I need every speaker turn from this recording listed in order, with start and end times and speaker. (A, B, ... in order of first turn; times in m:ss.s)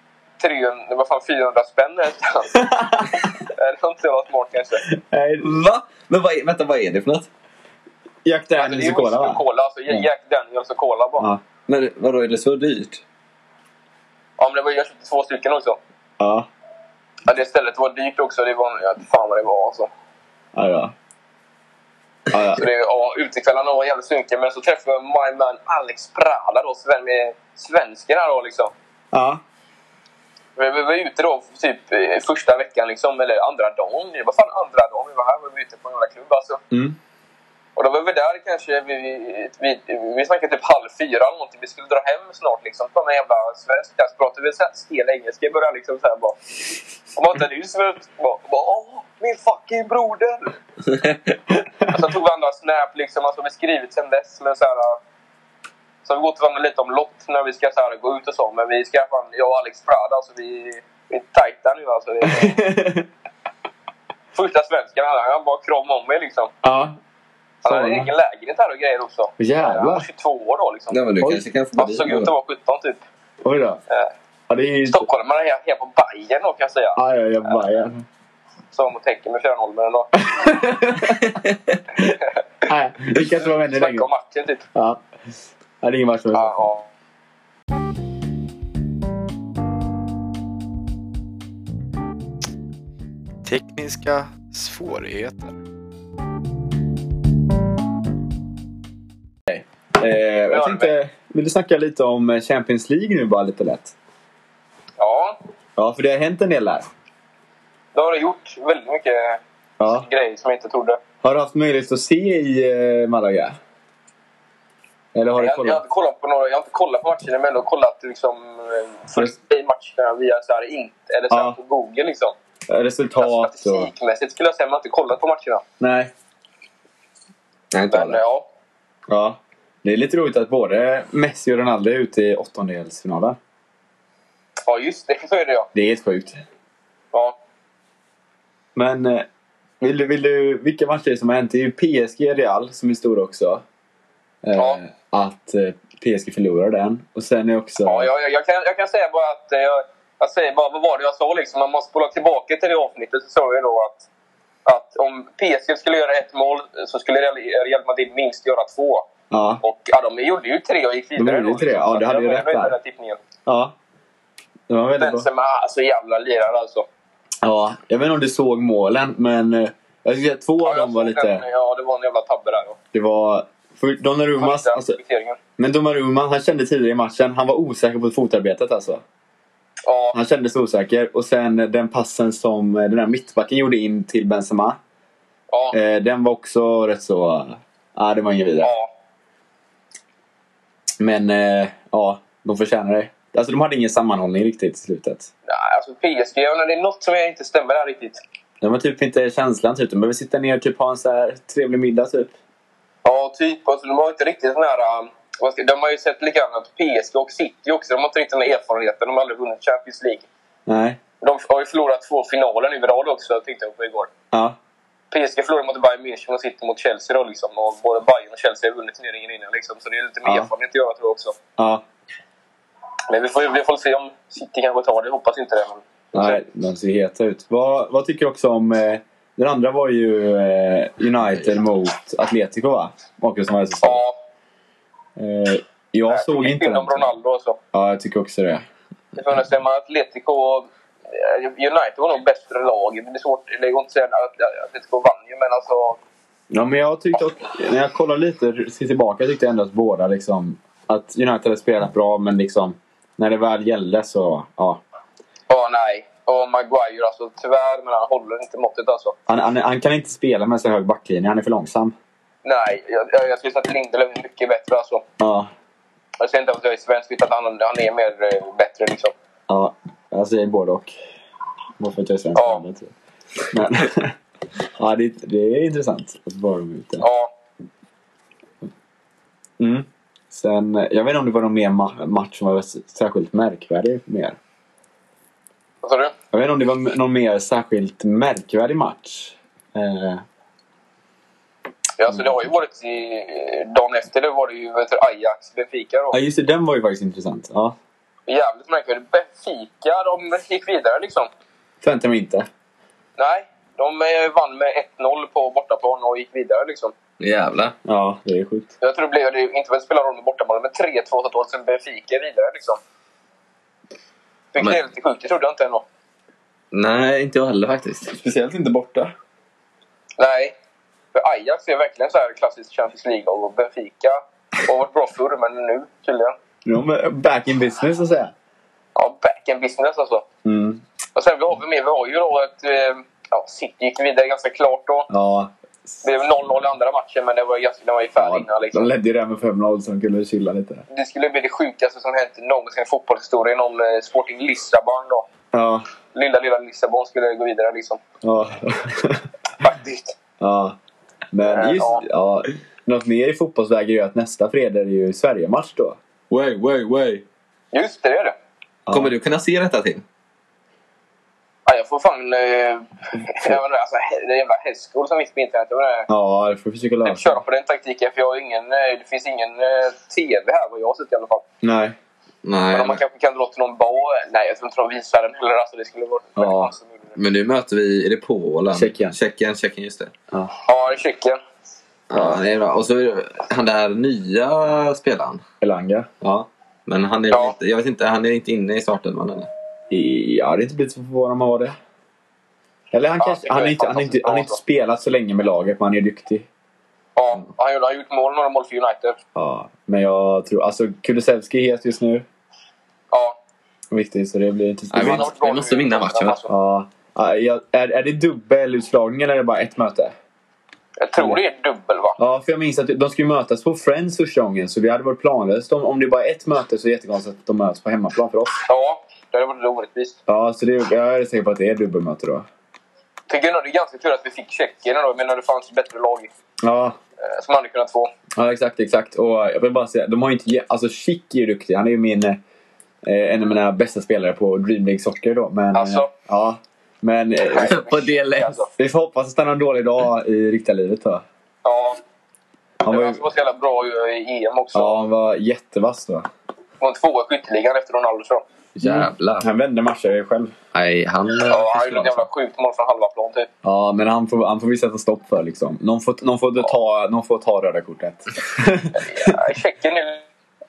0:00.4-0:02.6 A
0:02.6-0:03.2 B
0:03.4-0:04.8 A
0:04.9-0:05.5 B
0:05.4-0:07.3 C
0:08.2-0:10.1 B
0:08.6-0:11.3 A
0:11.7-0:13.0 C
0:14.4-0:15.8 A
0:16.2-0:16.5 B
0:17.3-0:19.9 A
0:20.5-0:20.9 B
0:22.3-0:22.7 B
0:22.5-0:28.7 A
0:29.1-0:29.4 B
0:30.6-0:36.6 A
0:36.7-0:37.0 B
0:37.8-0:46.4 A
0:47.1-0:50.5 A
0:50.9-0:51.2 C
0:51.9-0:55.0 A
0:56.0-1:02.6 A
1:02.3-1:03.1 B
1:04.3-1:06.5 A
1:06.6-1:07.0 B
1:07.6-1:08.1 B
1:07.6-1:11.0 A
1:09.4-1:10.1 B
1:10.9-1:12.3 C
1:11.7-1:13.0 A
1:13.4-1:13.8 B
1:14.5-1:15.1 B
1:14.9-1:17.0 A
1:17.0-1:18.0 B
1:18.7-1:20.1 A
1:20.2-1:21.4 B
1:21.2-1:21.5 C
1:22.7-1:24.1 B
1:23.2-1:24.6 A
1:24.7-1:25.0 B
1:25.8-1:26.7 B
1:26.3-1:26.9 A
1:33.4-1:35.6 D
1:39.5-1:43.9 B
1:40.5-1:40.9 A
1:45.0-1:45.4 A
1:45.8-1:46.9 B
1:47.9-1:51.0 A
1:49.8-1:50.1 B
1:51.2-1:53.6 B
1:55.1-1:55.8 B
1:55.4-2:02.4 A
2:01.3-2:01.6 B
2:02.7-2:03.9 B
2:03.2-2:05.6 A
2:05.8-2:06.1 B
2:07.7-2:08.2 C
2:07.9-2:08.5 A
2:09.1-2:13.4 B
2:14.7-2:15.7 A
2:15.7-2:16.4 B
2:18.8-2:19.3 B
2:19.8-2:23.6 B
2:24.4-2:28.1 B
2:27.8-2:34.1 A
2:34.7-2:39.1 A
2:39.3-2:39.6 B
2:39.6-2:43.2 A
2:41.2-2:42.8 B
2:43.5-2:43.7 B
2:44.7-2:45.3 B
2:45.0-2:46.9 A
2:47.4-2:51.4 B
2:50.6-2:52.8 A
2:52.9-2:55.0 B
2:54.4-2:55.4 A
2:55.6-2:59.0 B
2:59.8-3:00.2 A
3:00.1-3:04.8 B
3:05.5-3:05.8 A
3:05.7-3:08.7 B
3:08.6-3:08.9 A
3:11.0-3:15.3 B
3:15.5-3:18.2 A
3:18.6-3:22.3 B
3:23.0-3:30.3 A
3:30.7-3:31.0 B
3:31.2-3:34.1 A
3:35.1-3:41.4 A
3:40.2-3:40.5 B
3:41.6-3:41.8 B
3:43.1-3:46.4 A
3:46.1-3:54.0 B
3:53.8-3:54.2 A
3:55.2-3:57.1 B
3:56.1-3:57.6 A
3:57.7-3:58.6 B
3:59.2-4:06.0 A
4:06.5-4:14.8 B
4:15.5-4:19.2 A
4:19.3-4:22.0 B
4:22.4-4:25.0 A
4:25.2-4:25.5 B
4:26.2-4:29.1 A
4:29.5-4:30.9 B
4:31.8-4:32.9 B
4:32.4-4:32.6 A
4:33.5-4:34.2 B
4:34.8-4:37.0 B
4:37.0-4:37.3 A
4:39.6-4:44.4 B
4:45.8-4:46.1 A
4:46.3-4:50.2 B
4:52.0-4:56.2 A
4:56.1-4:57.8 B
4:58.3-5:01.3 A
5:01.8-5:02.5 B
5:03.2-5:06.9 A
5:07.2-5:07.8 C
5:07.8-5:08.7 B
5:08.8-5:12.8 A
5:14.5-5:15.8 A
5:16.7-5:18.1 C
5:18.1-5:19.1 B
5:20.2-5:20.5 A
5:21.1-5:26.4 A
5:26.6-5:28.3 B
5:29.0-5:30.2 A
5:30.4-5:30.8 B
5:31.2-5:35.1 A
5:35.1-5:35.5 B
5:36.0-5:38.9 A
5:38.2-5:40.8 B
5:40.9-5:45.3 A
5:45.5-5:45.8 B
5:46.1-5:48.0 A
5:48.2-5:49.2 B
5:49.6-5:50.2 A
5:50.4-5:50.8 B
5:51.3-5:56.0 B
5:51.5-5:52.0 A
5:56.3-5:57.2 C
5:57.7-5:58.4 A
5:58.9-5:59.1 B
5:58.9-6:00.0 C
6:01.7-6:06.1 A
6:06.1-6:07.4 B
6:07.0-6:11.4 A
6:11.6-6:12.0 B
6:12.4-6:13.0 C
6:12.7-6:17.2 A
6:16.4-6:16.7 B
6:17.2-6:20.1 C
6:18.7-6:19.2 B
6:20.7-6:21.4 A
6:22.1-6:25.4 C
6:25.6-6:26.5 B
6:26.9-6:29.5 C
6:29.9-6:31.8 B
6:32.9-6:36.5 B
6:33.2-6:34.6 A
6:37.2-6:39.2 A
6:39.4-6:42.2 B
6:43.1-6:43.4 A
6:43.9-6:45.3 B
6:44.9-6:46.4 C
6:45.0-6:46.5 A
6:46.5-6:50.1 B
6:51.0-6:52.2 A
6:52.2-6:58.6 B
6:58.7-7:00.2 A
7:00.3-7:02.5 B
7:03.3-7:06.3 A
7:06.6-7:07.0 B
7:07.2-7:08.1 A
7:08.4-7:12.4 B
7:13.0-7:17.8 B
7:15.7-7:16.1 A
7:17.4-7:18.7 A
7:17.5-7:18.6 C
7:18.8-7:21.2 B
7:21.6-7:22.0 A
7:22.8-7:23.2 B
7:22.9-7:25.0 A
7:24.7-7:26.3 B
7:26.8-7:28.4 A
7:28.8-7:29.5 C
7:28.8-7:30.6 B
7:30.7-7:32.2 C
7:31.5-7:33.5 A
7:33.6-7:39.4 B
7:38.9-7:40.3 A